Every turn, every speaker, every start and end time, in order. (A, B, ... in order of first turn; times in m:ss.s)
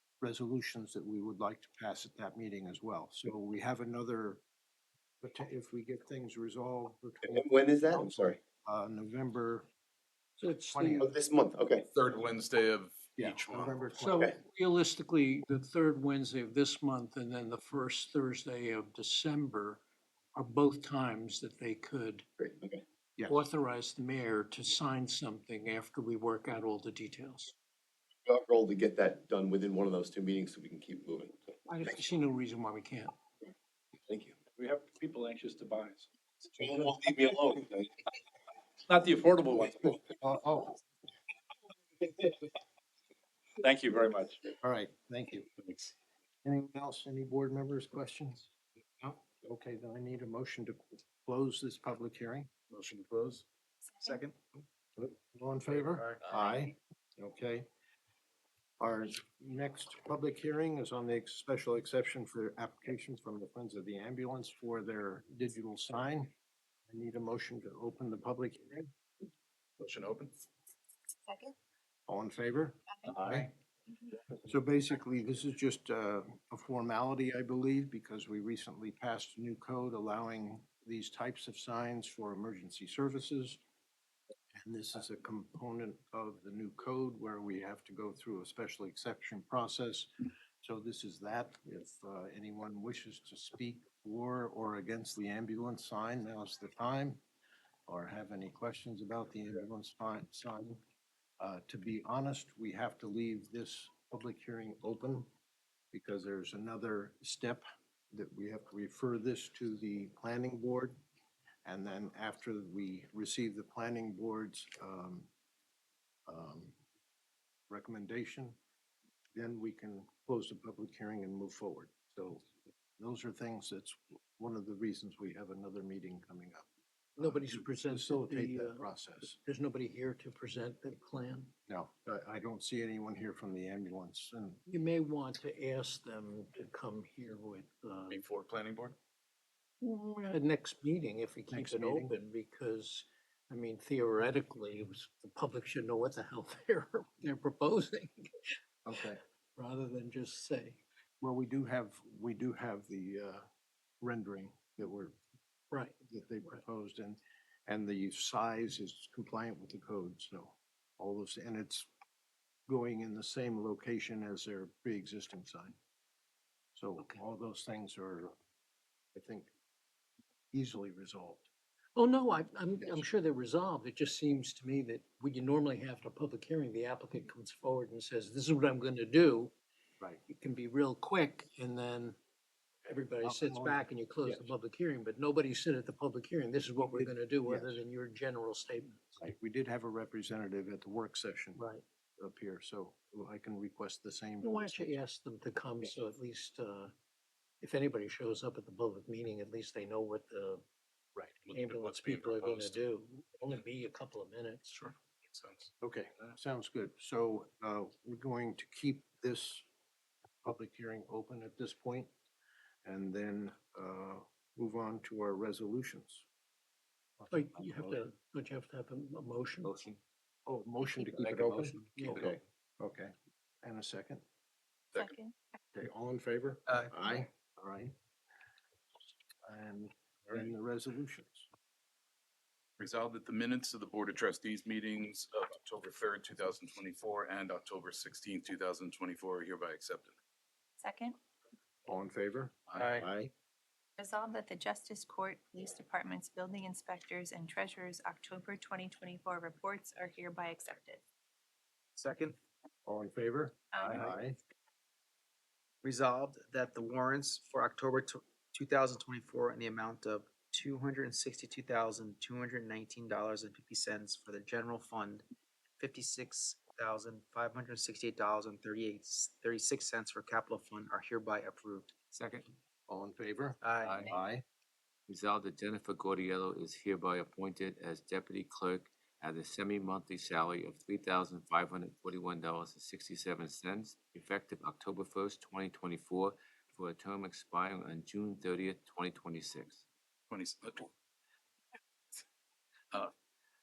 0:00.2-0:04.4 A
0:05.2-0:09.7 A
0:07.2-0:08.4 B
0:10.4-0:11.1 C
0:10.7-0:11.1 A
0:11.0-0:11.9 B
0:11.9-0:13.9 D
0:13.2-0:14.2 A
0:14.0-0:19.8 C
0:20.4-0:22.2 C
0:22.4-0:22.8 B
0:23.2-0:23.4 A
0:23.2-0:27.5 C
0:28.2-0:32.0 B
0:31.6-0:33.1 C
0:34.1-0:34.4 B
0:34.5-0:36.1 E
0:36.5-0:37.9 B
0:38.8-0:40.0 E
0:40.0-0:40.8 A
0:43.6-0:44.4 E
0:44.6-0:45.5 A
0:45.6-0:45.9 D
0:46.4-0:48.5 A
0:49.3-0:52.5 A
0:52.7-0:53.4 D
0:54.0-0:54.4 F
0:55.0-0:57.7 A
0:55.8-0:56.4 F
0:58.8-1:06.3 A
1:06.9-1:08.9 A
1:09.8-1:10.3 D
1:11.3-1:11.5 G
1:12.1-1:13.5 A
1:14.4-1:23.6 A
1:24.6-1:37.2 A
1:37.9-1:40.8 A
1:41.4-1:45.3 A
1:45.9-1:51.0 A
1:51.6-1:55.3 A
1:56.3-1:56.8 A
1:57.7-1:58.6 A
1:59.3-2:06.6 A
2:07.2-2:11.5 C
2:07.2-2:09.4 A
2:11.7-2:14.6 A
2:14.7-2:18.2 C
2:18.1-2:19.0 D
2:19.8-2:28.5 C
2:21.5-2:22.1 A
2:28.8-2:29.2 A
2:29.6-2:30.8 C
2:31.2-2:33.4 A
2:34.0-2:35.2 A
2:35.7-2:36.6 C
2:36.0-2:41.9 A
2:42.7-2:45.8 A
2:46.7-2:48.3 A
2:49.1-2:49.5 A
2:50.5-2:51.5 A
2:52.0-2:59.5 C
2:52.8-2:53.1 A
3:00.3-3:02.2 C
3:02.8-3:09.2 C
3:03.2-3:04.5 A
3:06.8-3:07.8 A
3:09.2-3:11.6 A
3:11.5-3:11.8 C
3:12.2-3:15.0 A
3:14.4-3:16.9 C
3:17.6-3:20.6 C
3:21.4-3:22.8 D
3:21.5-3:24.7 C
3:24.7-3:25.7 D
3:25.8-3:29.6 A
3:30.4-3:32.1 A
3:32.8-3:36.2 A
3:37.2-3:38.0 A
3:37.3-3:39.7 C
3:39.6-3:40.0 H
3:40.4-3:44.2 A
3:41.2-3:42.3 C
3:45.0-3:45.3 G
3:45.7-3:47.9 A
3:46.7-3:46.9 F
3:49.4-3:51.5 A
3:52.8-4:00.1 D
4:00.8-4:01.2 G
4:01.8-4:03.3 A
4:02.8-4:03.0 F
4:04.0-4:11.0 G
4:12.0-4:12.4 F
4:12.8-4:14.4 A
4:13.7-4:14.1 G
4:15.8-4:25.3 F
4:25.8-4:31.9 F
4:32.1-4:32.5 H
4:32.9-4:34.4 A
4:33.6-4:34.2 F
4:33.8-4:34.1 H
4:35.1-4:49.8 H
4:50.3-4:50.9 D